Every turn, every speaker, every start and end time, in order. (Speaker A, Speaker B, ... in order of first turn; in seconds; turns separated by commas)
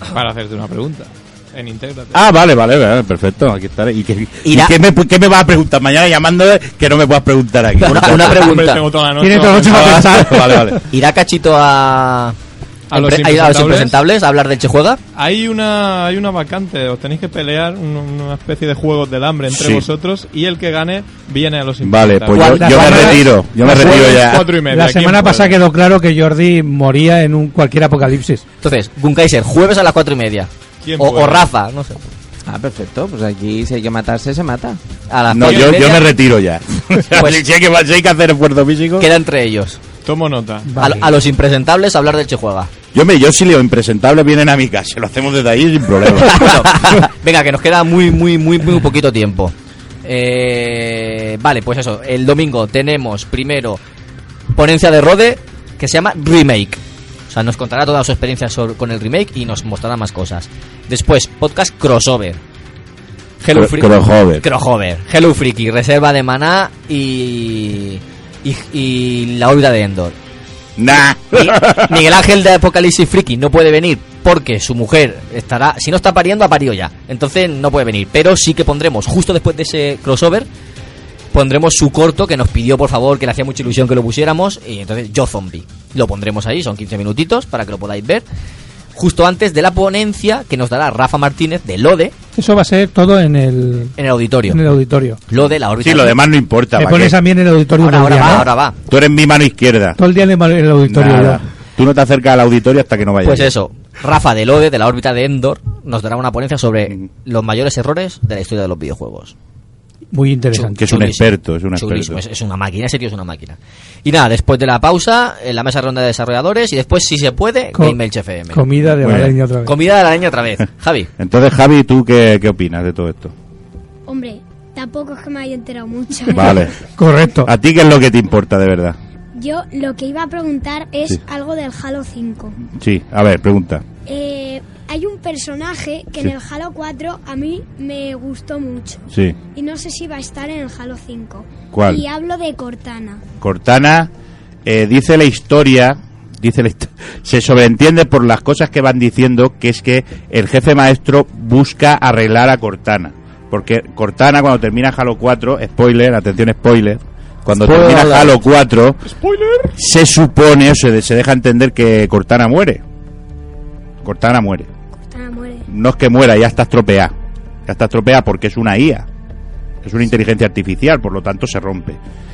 Speaker A: 0.1-2.2, Speaker B: 2.1-8.5, Speaker C: 4.4-4.8, Speaker C: 7.8-8.8, Speaker A: 8.1-10.2, Speaker D: 9.2-10.8, Speaker B: 9.6-10.8, Speaker C: 10.9-12.4, Speaker A: 12.9-14.0, Speaker C: 12.9-15.0, Speaker A: 15.2-25.6, Speaker B: 19.5-19.9, Speaker B: 21.8-24.5, Speaker C: 22.3-23.2, Speaker D: 22.4-24.0, Speaker D: 24.7-28.4, Speaker C: 28.6-32.0, Speaker A: 30.8-31.5, Speaker E: 32.5-34.8, Speaker C: 35.1-36.1, Speaker B: 35.3-39.1, Speaker A: 35.5-35.9, Speaker C: 37.1-37.4, Speaker C: 39.0-39.8, Speaker A: 40.0-40.7, Speaker D: 40.7-41.1, Speaker C: 40.8-42.7, Speaker B: 42.9-46.6, Speaker C: 46.1-53.8, Speaker C: 54.5-62.4, Speaker C: 63.4-70.2, Speaker B: 63.5-64.4, Speaker B: 70.8-72.0, Speaker C: 71.3-80.5, Speaker C: 81.3-88.2, Speaker C: 89.0-92.1, Speaker D: 92.4-94.0, Speaker C: 94.0-94.6, Speaker D: 94.5-95.2, Speaker C: 95.3-96.2, Speaker B: 95.8-97.2, Speaker D: 96.8-98.5, Speaker C: 97.8-98.8, Speaker B: 98.9-100.0, Speaker D: 100.0-101.4, Speaker B: 100.8-103.5, Speaker C: 103.2-109.3, Speaker D: 110.1-110.8, Speaker C: 110.5-118.6, Speaker B: 110.8-112.2, Speaker D: 118.5-119.7, Speaker B: 119.0-119.3, Speaker C: 119.6-121.1, Speaker B: 121.2-123.3, Speaker F: 124.1-126.6, Speaker B: 126.3-126.8, Speaker D: 127.0-127.5, Speaker B: 127.4-129.0, Speaker F: 129.4-132.6, Speaker B: 132.7-133.8, Speaker F: 134.1-139.0, Speaker B: 139.1-139.4, Speaker F: 139.6-143.2, Speaker B: 141.7-142.0, Speaker B: 143.4-144.1, Speaker B: 144.6-159.0, Speaker E: 157.5-158.4, Speaker A: 159.1-159.7, Speaker B: 159.7-162.8, Speaker B: 164.0-164.7, Speaker F: 165.1-165.7, Speaker B: 165.7-167.1, Speaker B: 167.7-169.1, Speaker B: 169.8-172.0